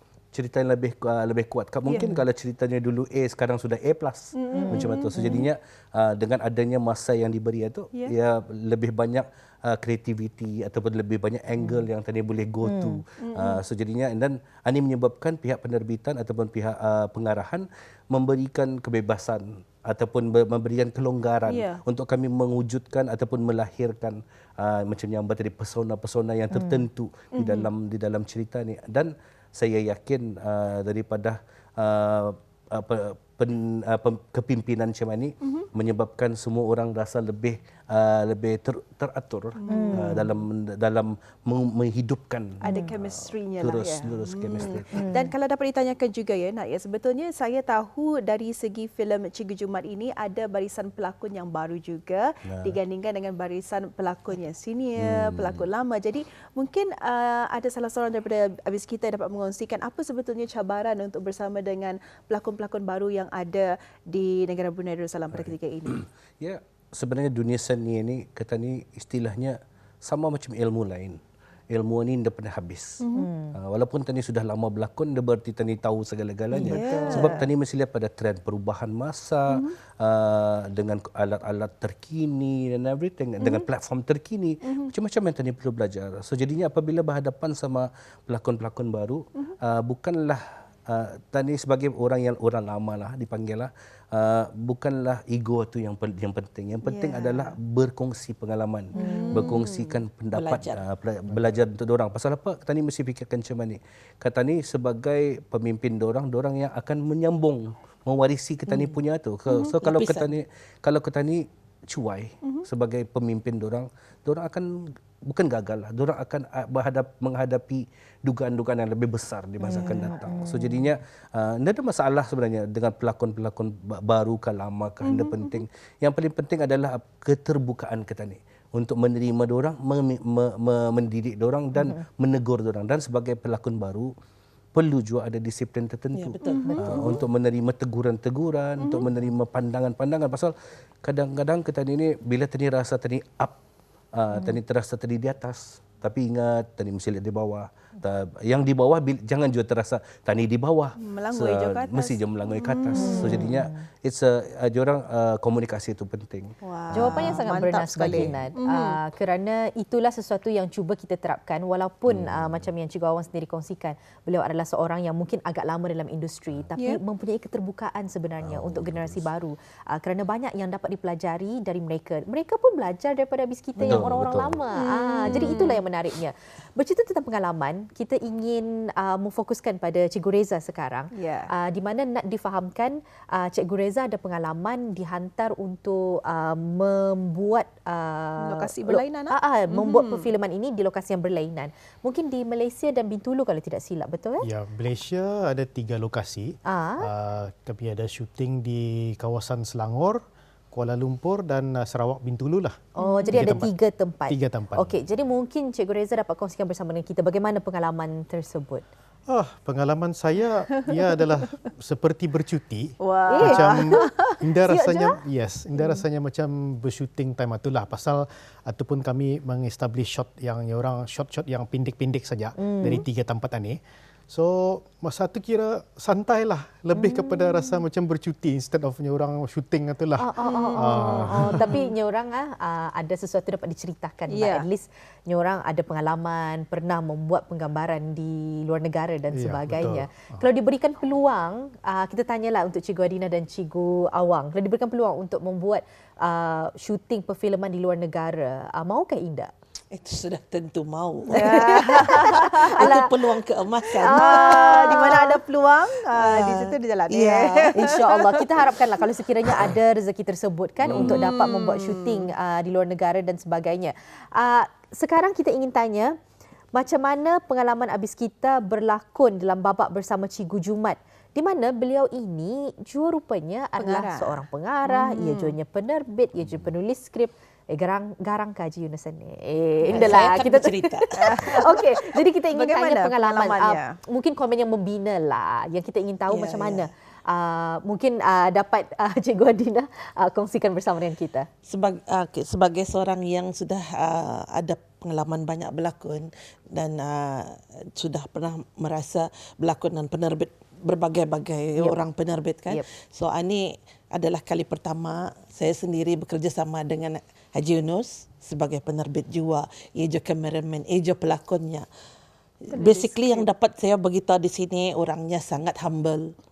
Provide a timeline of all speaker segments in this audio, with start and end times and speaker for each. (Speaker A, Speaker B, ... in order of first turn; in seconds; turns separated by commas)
Speaker A: 0.3-44.9, Speaker B: 1.9-2.2, Speaker B: 4.3-5.4, Speaker C: 4.5-5.4, Speaker C: 12.6-13.0, Speaker B: 13.2-13.6, Speaker B: 21.5-21.8, Speaker C: 26.5-26.9, Speaker B: 27.3-27.7, Speaker B: 39.6-40.2, Speaker C: 39.7-40.3, Speaker B: 42.6-66.0, Speaker C: 44.9-45.3, Speaker A: 52.5-52.8, Speaker A: 55.0-55.7, Speaker A: 65.3-71.2, Speaker A: 71.7-73.0, Speaker B: 73.0-73.3, Speaker C: 73.1-73.5, Speaker A: 73.5-134.1, Speaker D: 76.5-77.3, Speaker B: 76.6-77.4, Speaker B: 79.5-79.7, Speaker B: 83.4-83.6, Speaker B: 84.6-84.9, Speaker B: 96.8-97.5, Speaker B: 98.9-100.0, Speaker C: 99.0-99.6, Speaker D: 100.3-100.8, Speaker D: 108.7-109.0, Speaker D: 109.5-110.3, Speaker C: 119.6-120.8, Speaker D: 119.7-120.1, Speaker B: 125.0-125.6, Speaker C: 131.8-132.0, Speaker A: 134.7-143.5, Speaker D: 136.1-137.2, Speaker B: 136.4-137.1, Speaker C: 136.7-137.1, Speaker B: 138.8-139.1, Speaker A: 144.1-157.3, Speaker C: 144.3-144.6, Speaker B: 151.0-153.5, Speaker C: 152.9-153.8, Speaker B: 156.6-159.0, Speaker C: 156.9-194.5, Speaker A: 162.1-162.6, Speaker A: 168.4-169.2, Speaker A: 173.8-174.6, Speaker B: 174.7-175.8, Speaker B: 181.1-181.5, Speaker B: 188.4-190.3, Speaker E: 194.4-203.7, Speaker C: 196.7-197.1, Speaker C: 203.0-208.8, Speaker B: 203.0-203.4, Speaker E: 204.3-204.9, Speaker E: 209.3-231.8, Speaker B: 213.0-214.4, Speaker C: 213.3-214.0, Speaker C: 214.7-215.2, Speaker C: 222.6-223.0, Speaker C: 226.9-227.8, Speaker C: 230.2-249.5, Speaker B: 230.4-231.9, Speaker B: 234.3-234.7, Speaker E: 239.3-240.4, Speaker D: 249.9-255.3, Speaker C: 251.3-253.1, Speaker B: 251.4-252.9, Speaker C: 254.0-255.4, Speaker B: 254.0-258.2, Speaker D: 256.1-258.2, Speaker C: 257.7-266.1, Speaker B: 260.9-262.3, Speaker C: 266.7-291.5, Speaker B: 273.8-275.6, Speaker B: 279.9-280.2, Speaker D: 279.9-281.8, Speaker B: 281.1-281.9, Speaker B: 282.5-283.9, Speaker D: 286.3-286.9, Speaker D: 291.6-311.9, Speaker D: 312.7-316.3, Speaker B: 312.7-313.5